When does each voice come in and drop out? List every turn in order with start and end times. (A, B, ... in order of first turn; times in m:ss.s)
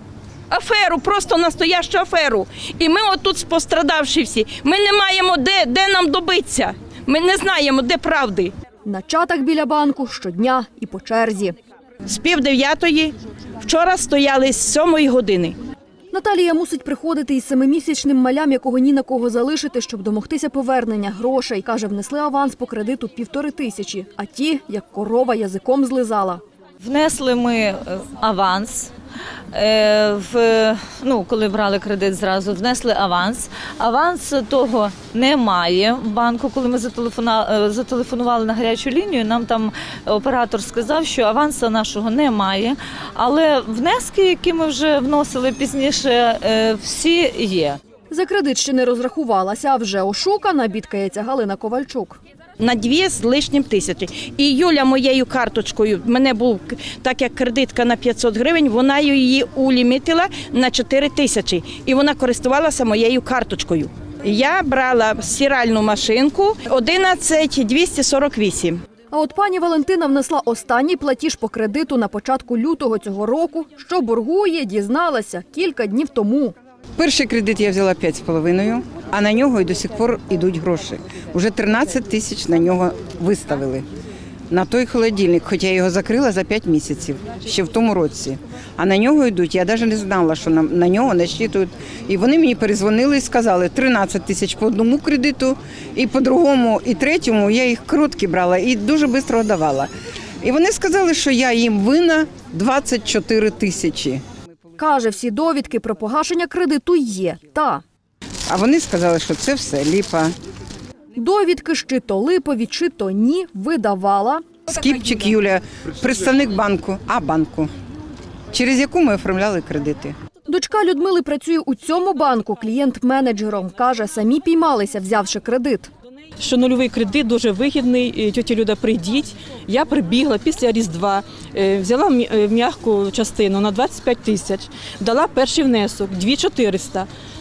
0:00.5-0:08.5 A
0:08.8-0:11.5 B
0:12.0-0:15.6 A
0:16.1-0:26.4 B
0:26.8-0:28.9 C
0:29.5-0:47.8 C
0:48.1-0:52.2 B
0:52.6-1:08.8 A
1:09.1-1:16.5 B
1:17.0-1:23.8 D
1:24.5-1:39.9 D
1:40.4-1:44.2 D
1:44.8-1:47.8 B
1:48.5-1:50.3 D
1:51.2-1:54.5 B
1:54.7-1:57.7 D
1:58.5-2:00.1 D
2:00.5-2:05.9 B
2:06.4-2:17.1 E